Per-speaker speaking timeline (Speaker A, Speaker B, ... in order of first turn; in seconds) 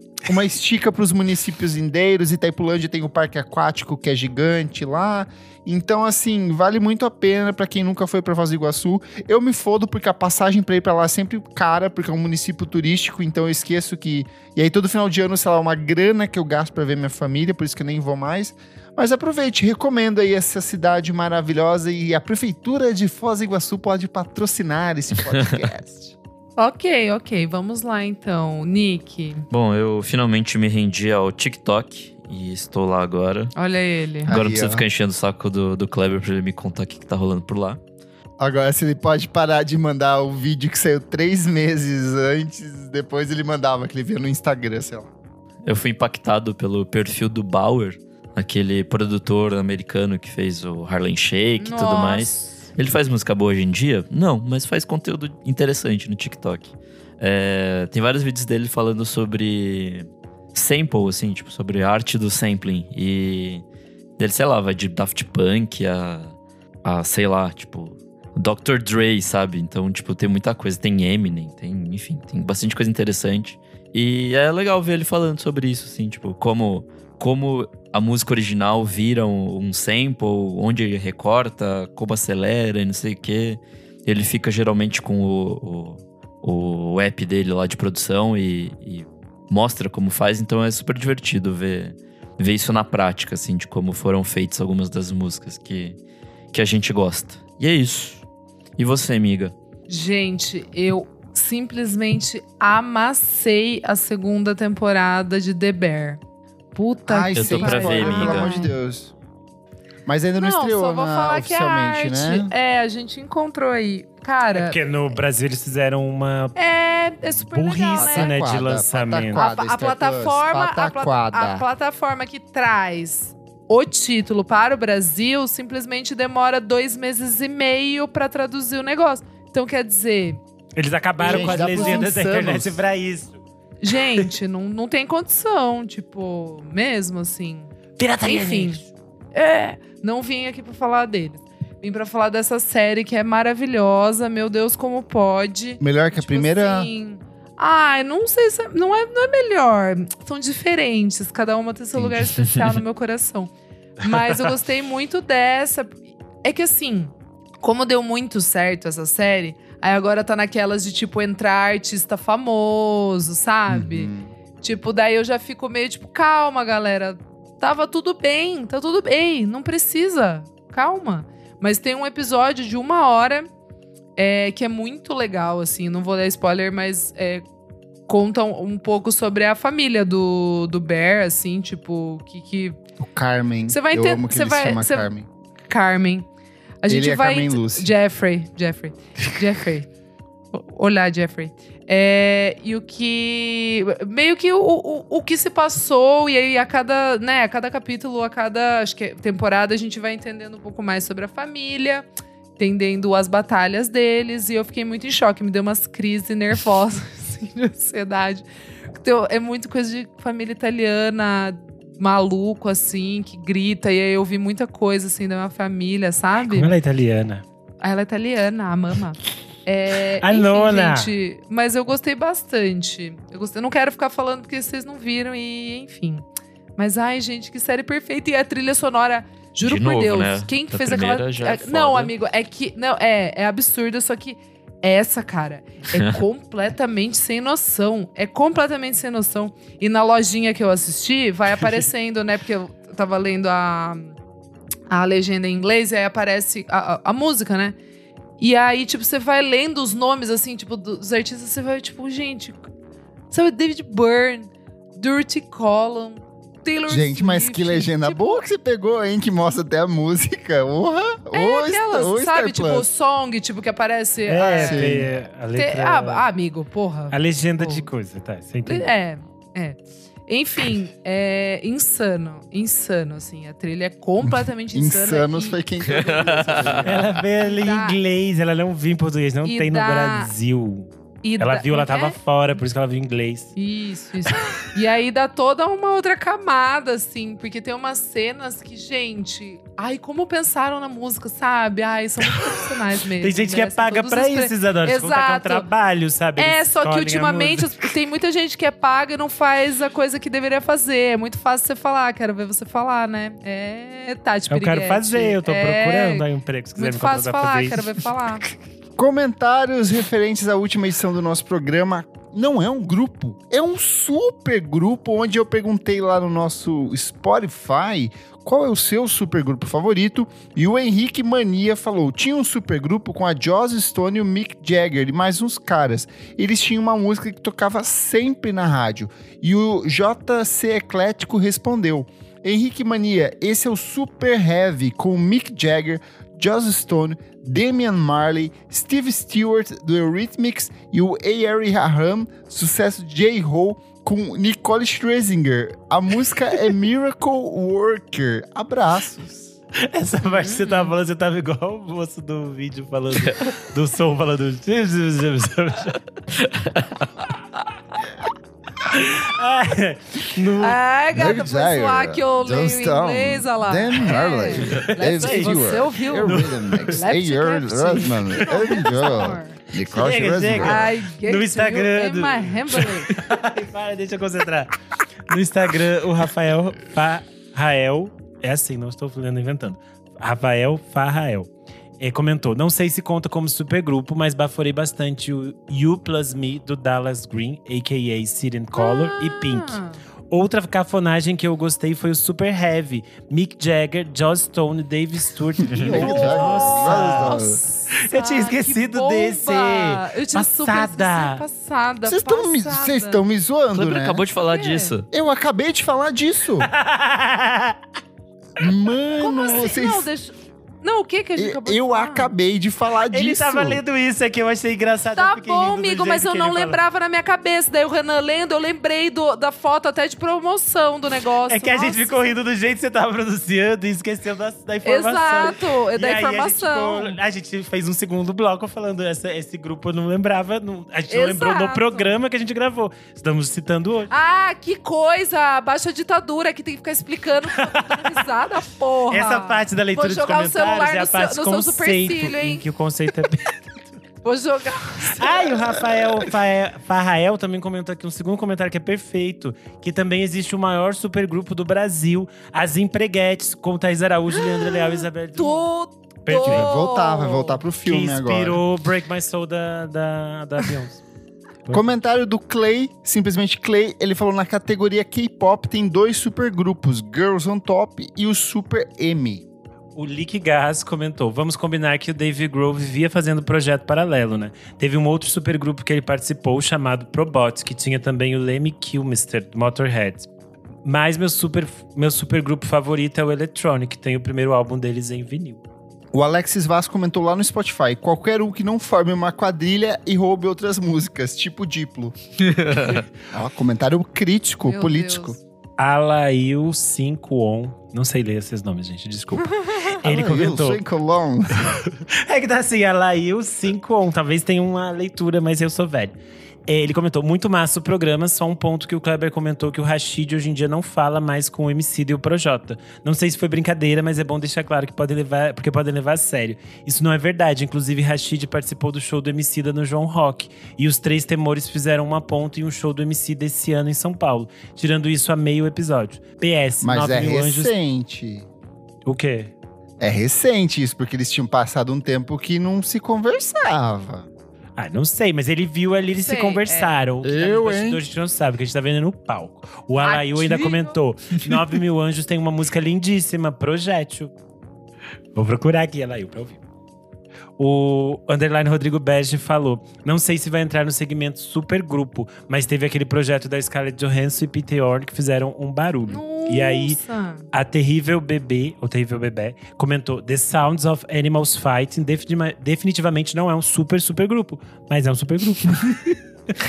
Speaker A: 0.2-26.1, 34.3-34.8, 38.4-45.1, 107.1-109.1, 110.0-112.5, 117.9-121.6, 131.2-132.8, 145.8-146.9, 163.7-164.3, 183.0-185.3, 186.9-187.9, 256.9-262.9, 264.6-265.1, 274.2-277.2, 308.9-349.5, 361.1-370.9, 395.6-397.6, 402.1-404.2, 405.1-406.7, 408.6-410.1, 411.4-413.8, 456.4-458.6, 461.7-469.4, 486.1-492.1, 493.3-495.4, 500.0-501.6, 526.8-528.5, 530.0-534.3, 537.2-538.0
Speaker B: 25.2-25.7, 29.5-33.5, 34.2-37.8, 45.6-63.6, 64.2-96.0, 96.5-98.2, 98.8-99.5, 107.3-108.6, 152.0-152.7, 229.6-232.1, 235.9-236.2, 275.9-276.9, 356.4-356.8, 403.7-405.1, 492.4-492.9
Speaker C: 26.6-29.4, 33.5-34.3, 51.6-52.6, 99.9-106.2, 106.7-108.7, 110.4-115.1, 116.5-118.3, 119.3-130.4, 131.2-132.1, 133.8-138.8, 139.3-164.1, 164.6-173.5, 174.2-177.4, 178.1-182.8, 183.7-185.1, 185.7-186.3, 186.8-189.9, 190.5-202.1, 202.6-216.7, 217.8-226.2, 226.8-244.2, 244.9-247.8, 248.4-252.7, 253.3-258.4, 261.3-267.9, 268.6-275.6, 277.2-278.0, 279.4-280.3, 281.2-282.2, 283.5-295.7, 296.4-306.2, 306.8-308.5, 350.3-350.9, 360.5-369.6, 370.6-373.2, 388.8-390.0, 395.8-403.2, 404.5-404.9, 409.2-412.3, 415.1-422.3, 424.8-427.2, 431.1-432.1, 434.1-442.6, 444.2-445.6, 454.4-454.8, 455.4-457.6, 494.6-495.4, 499.6-499.9, 536.1-536.9, 540.0-541.0, 556.1-557.5
Speaker D: 114.5-116.5, 117.5-119.4, 130.8-133.4, 138.0-138.8, 216.4-217.4, 220.2-221.1, 264.3-266.2, 267.1-268.9, 276.8-283.5, 293.2-297.7, 304.5-308.0, 349.8-356.0, 358.9-360.8, 364.9-366.8, 369.9-374.7, 375.3-397.4, 398.0-401.4, 406.6-407.8, 413.1-416.8, 421.5-434.1, 437.6-438.2, 439.1-443.9, 445.0-455.7, 456.2-456.7, 457.8-461.0, 461.6-461.9, 469.9-480.3, 480.8-485.6, 495.8-500.8, 501.6-506.1, 506.7-527.7, 529.0-529.5, 534.8-544.3, 545.3-546.6, 547.6-557.0, 557.5-566.1